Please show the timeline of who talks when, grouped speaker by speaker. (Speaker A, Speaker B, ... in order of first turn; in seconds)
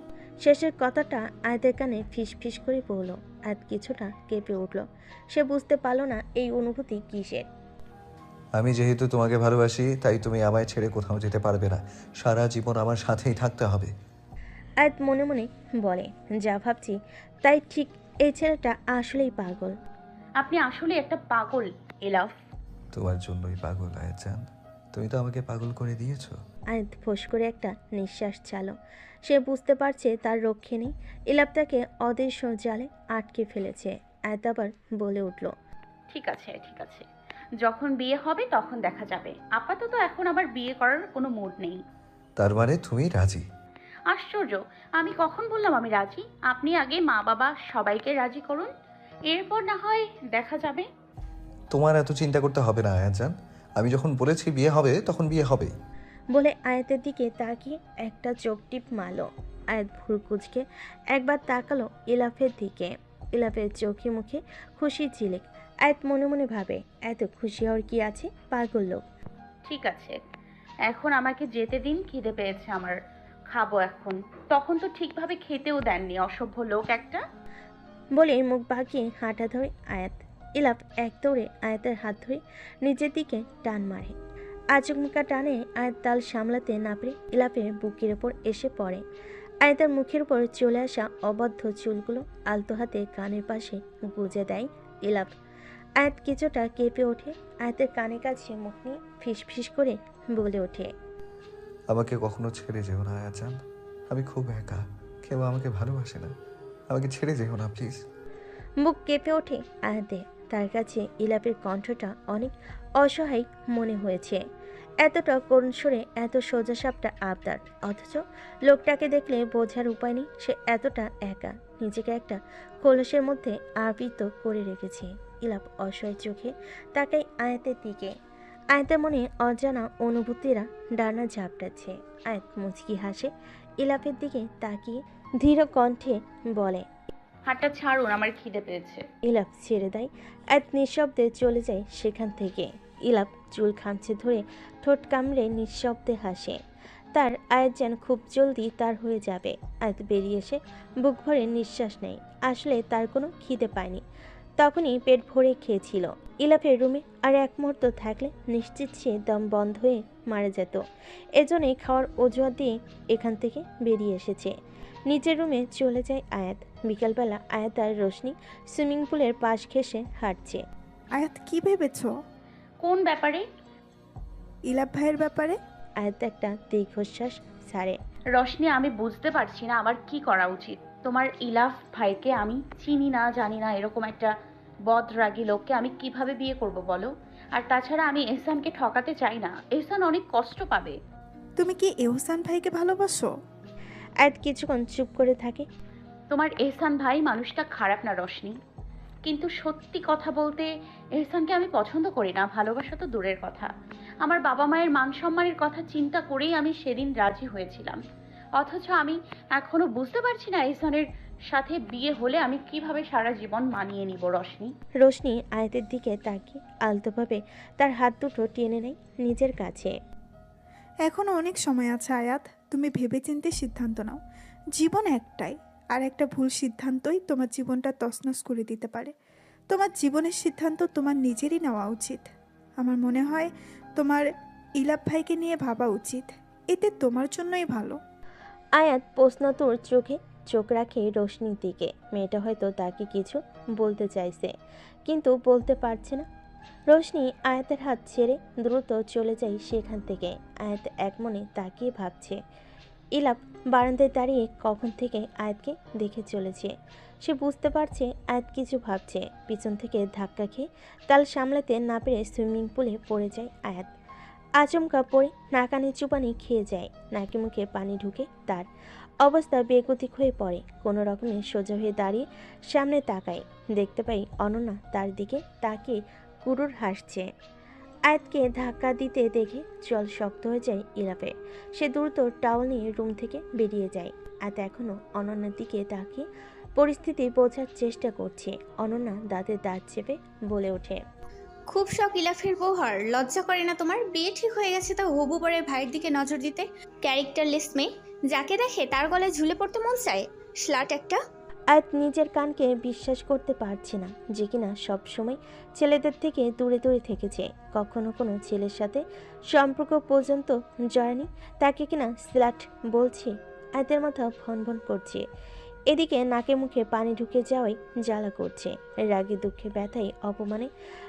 Speaker A: 0.4-7.5, 14.8-19.8, 26.7-28.7, 29.2-35.5, 56.3-69.0, 78.2-84.2, 84.7-89.0, 89.6-95.3, 96.0-100.9, 108.8-114.4, 115.0-128.1, 128.7-136.8, 139.2-146.6, 147.1-154.0, 154.6-160.8, 161.4-164.5, 165.1-170.6, 176.0-178.0, 194.2-195.7, 215.0-219.9, 238.8-244.5, 245.1-246.2, 246.9-252.4, 253.2-256.7, 257.2-263.9, 264.6-268.7, 269.2-277.3, 278.1-286.3, 286.8-291.0, 301.7-315.2, 315.9-320.7
Speaker B: 8.6-13.9, 22.9-24.4, 24.9-26.4, 42.4-43.4, 51.7-55.7, 101.9-103.6, 104.1-106.3, 106.9-108.0
Speaker C: 20.4-22.3, 36.1-37.0, 37.6-41.8, 44.1-48.7, 49.3-50.9, 69.7-70.2, 70.8-73.0, 73.5-77.2, 137.5-139.1, 172.8-173.4, 178.3-184.3, 184.9-190.9, 196.3-198.6, 199.2-203.7, 204.2-208.0, 208.6-214.7
Speaker D: 171.2-172.1, 174.7-175.6, 191.6-193.3, 221.1-224.2, 224.7-229.1, 229.7-238.0
Speaker E: 291.7-301.2